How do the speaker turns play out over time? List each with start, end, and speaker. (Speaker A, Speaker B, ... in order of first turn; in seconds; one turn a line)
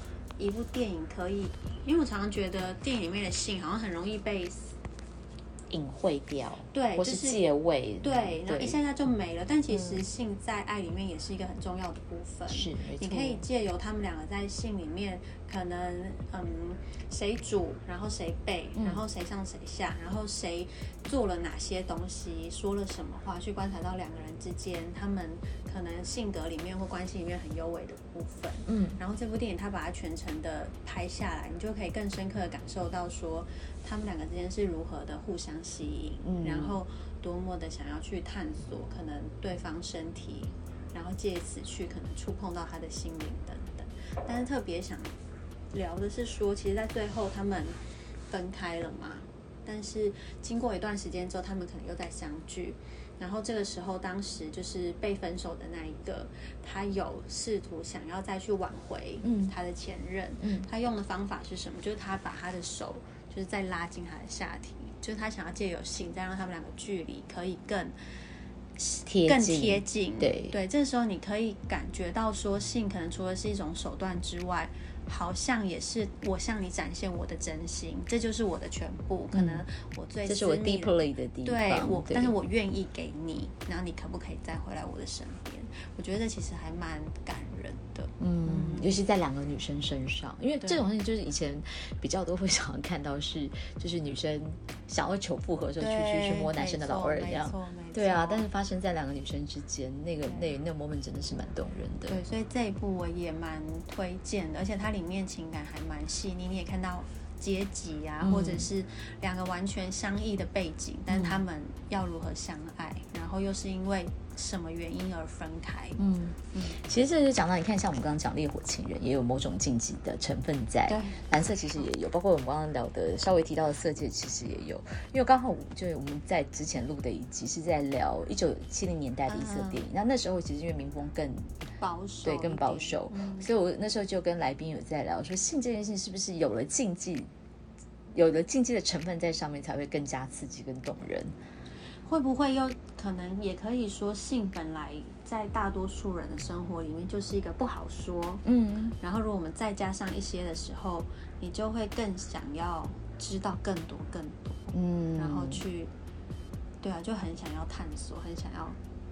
Speaker A: 0.4-4.8
Speaker B: 5.7-8.8
Speaker A: 6.7-7.4
Speaker A: 8.0-45.1
Speaker B: 9.7-10.0
Speaker B: 12.5-13.4
Speaker B: 18.8-19.0
Speaker B: 28.7-29.0
Speaker B: 36.2-36.8
Speaker A: 45.7-47.8
Speaker A: 48.3-67.9
Speaker B: 59.2-59.5
Speaker B: 60.4-60.7
Speaker A: 68.8-88.9
Speaker B: 69.0-70.5
Speaker B: 79.3-79.6
Speaker B: 80.2-82.3
Speaker B: 88.2-102.2
Speaker A: 95.8-98.5
Speaker A: 100.2-100.5
Speaker A: 102.1-116.0
Speaker B: 108.2-108.7
Speaker B: 111.1-111.4
Speaker B: 116.0-131.5
Speaker A: 116.5-116.8
Speaker A: 120.9-121.8
Speaker A: 129.3-129.8
Speaker A: 131.8-133.5
Speaker B: 132.2-137.3
Speaker B: 138.1-141.3
Speaker A: 142.0-148.4
Speaker B: 148.4-148.9
Speaker A: 149.0-155.9
Speaker B: 154.7-155.6
Speaker A: 156.8-158.8